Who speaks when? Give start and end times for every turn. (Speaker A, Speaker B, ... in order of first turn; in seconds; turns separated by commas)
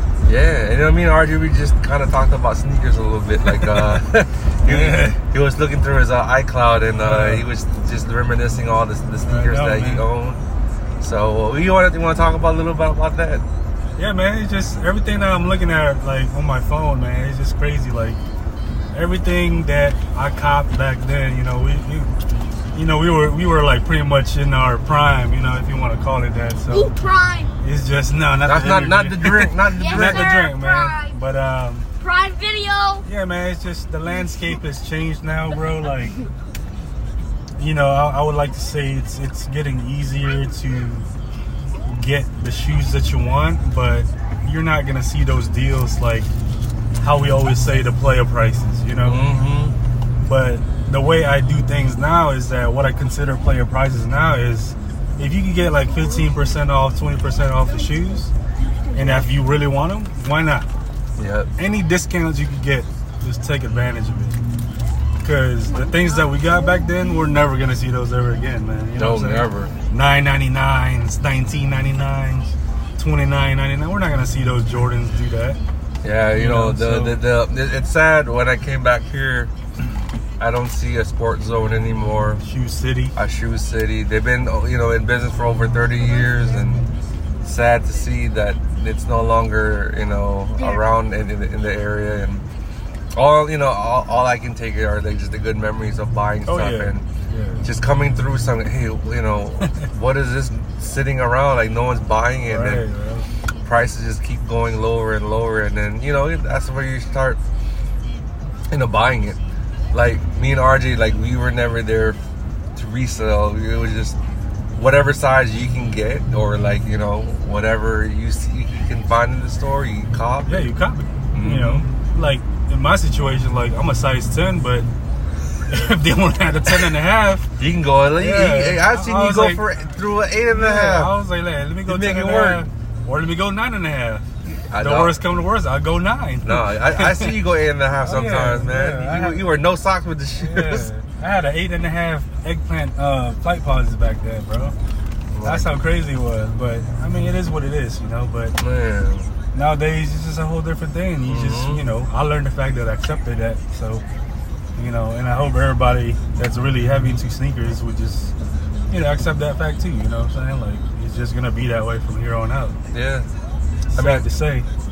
Speaker A: 0.2-10.4, Speaker B: 3.5-4.0, Speaker B: 4.7-5.2, Speaker B: 7.0-7.5, Speaker B: 9.2-10.1, Speaker A: 11.0-13.4, Speaker B: 14.0-18.2, Speaker B: 18.9-22.1, Speaker B: 22.7-26.9, Speaker C: 26.7-27.6, Speaker B: 27.6-31.9, Speaker A: 28.5-30.4, Speaker C: 29.7-31.2, Speaker C: 32.0-33.1, Speaker B: 33.0-36.2, Speaker B: 37.6-41.1, Speaker B: 41.9-46.3, Speaker B: 47.0-49.3, Speaker A: 49.0-49.8, Speaker B: 50.2-58.3, Speaker C: 56.0-56.3, Speaker C: 58.8-59.3, Speaker B: 58.9-60.7, Speaker A: 61.2-61.5, Speaker B: 61.6-64.4, Speaker B: 65.2-75.6, Speaker A: 69.0-69.7, Speaker A: 76.0-79.5, Speaker B: 76.3-77.2, Speaker A: 80.4-82.4, Speaker B: 82.4-83.2, Speaker A: 83.2-86.8, Speaker C: 86.1-86.6, Speaker A: 87.4-92.5, Speaker C: 90.6-90.8, Speaker A: 93.1-97.1, Speaker B: 96.5-97.7, Speaker A: 97.6-102.8, Speaker B: 102.4-103.3, Speaker A: 103.6-107.4, Speaker A: 108.7-109.4, Speaker A: 109.9-112.2, Speaker A: 112.8-114.2, Speaker A: 114.8-120.7, Speaker B: 120.5-124.9, Speaker A: 121.3-121.9, Speaker B: 125.7-127.5, Speaker A: 127.6-131.2, Speaker B: 128.2-129.7, Speaker B: 130.5-137.3, Speaker A: 131.9-132.6, Speaker A: 134.5-135.2, Speaker A: 136.4-140.9, Speaker B: 138.0-139.6, Speaker B: 140.4-144.8, Speaker A: 145.3-145.7, Speaker B: 145.4-148.6, Speaker A: 148.6-149.3, Speaker B: 149.5-154.0, Speaker A: 151.3-151.9, Speaker B: 154.8-158.3, Speaker B: 158.9-162.8, Speaker A: 162.9-163.3, Speaker B: 163.9-164.7, Speaker A: 163.9-164.3